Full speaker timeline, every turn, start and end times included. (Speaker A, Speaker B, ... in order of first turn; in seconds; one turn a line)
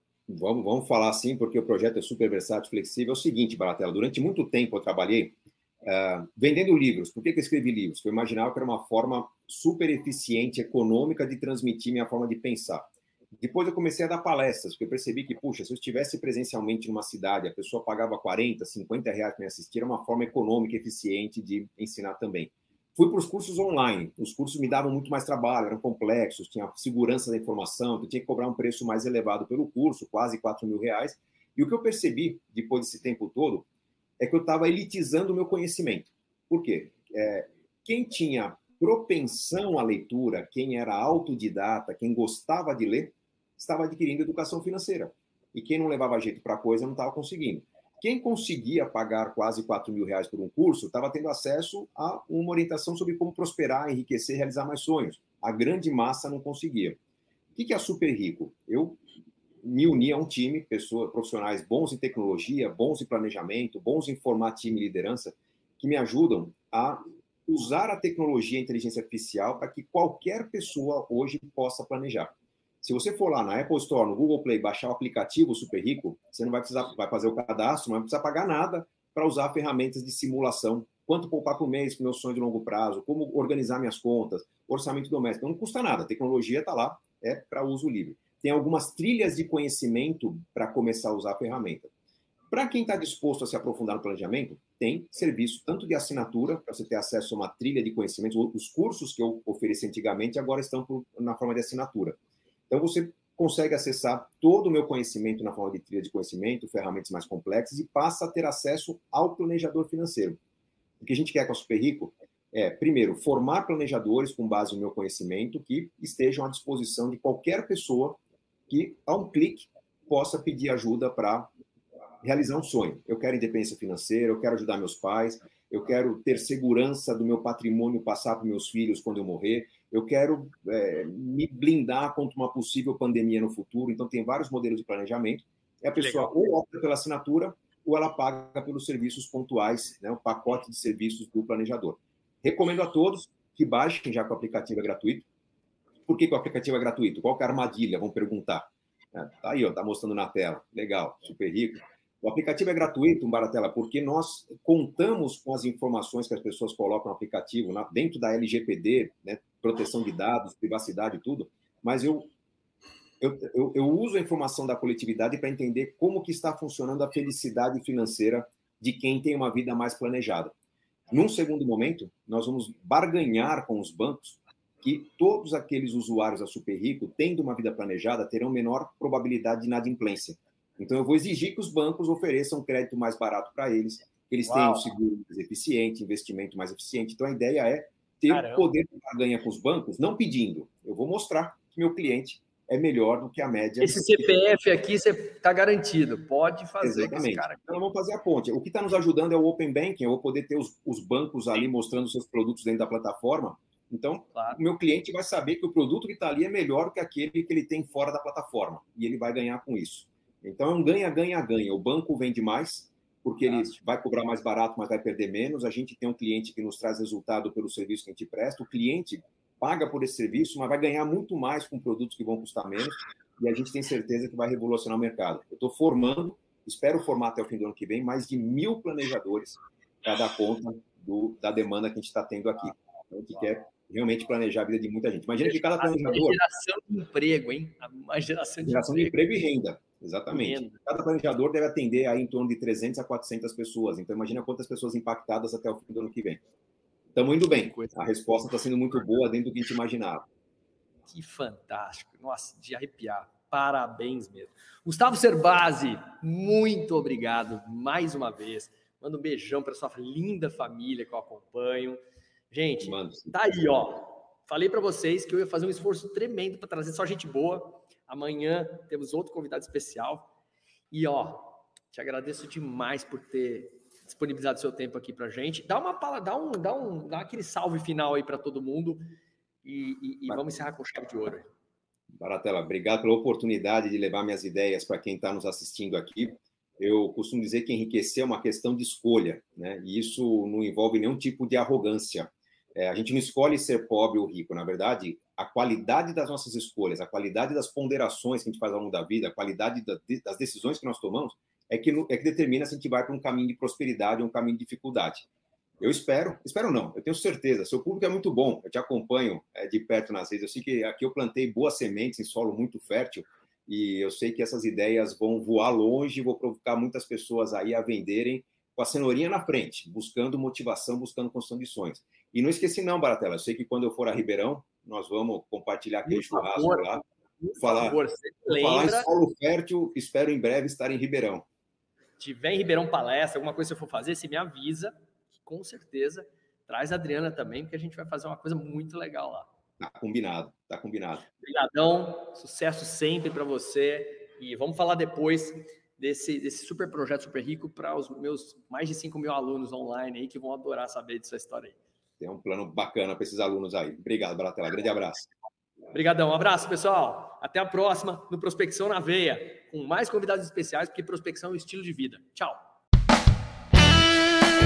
Speaker A: 0.3-33.7
Speaker A: 34.2-57.0
Speaker A: 57.5-59.0
Speaker A: 59.6-91.9
Speaker A: 92.5-102.2
Speaker A: 102.7-110.4
Speaker A: 111.0-121.5
Speaker A: 122.2-145.3
Speaker B: 136.0-136.3
Speaker A: 146.1-162.3
Speaker A: 163.2-170.5
Speaker A: 171.1-194.3
Speaker B: 184.4-184.9
Speaker B: 188.3-188.7
Speaker B: 193.8-197.7
Speaker A: 196.8-236.4
Speaker B: 204.3-204.6
Speaker B: 213.5-213.7
Speaker B: 235.4-239.1
Speaker A: 238.6-246.4
Speaker B: 240.3-240.8
Speaker A: 247.1-250.2
Speaker B: 247.5-247.9
Speaker B: 251.1-270.3
Speaker A: 262.8-263.4
Speaker B: 270.9-279.0
Speaker B: 279.6-281.5
Speaker A: 282.2-305.3
Speaker A: 305.8-327.0
Speaker B: 326.1-329.1
Speaker A: 327.6-331.4
Speaker B: 332.2-339.5
Speaker A: 339.8-341.2
Speaker B: 341.3-351.8
Speaker A: 352.2-355.3
Speaker B: 355.9-362.6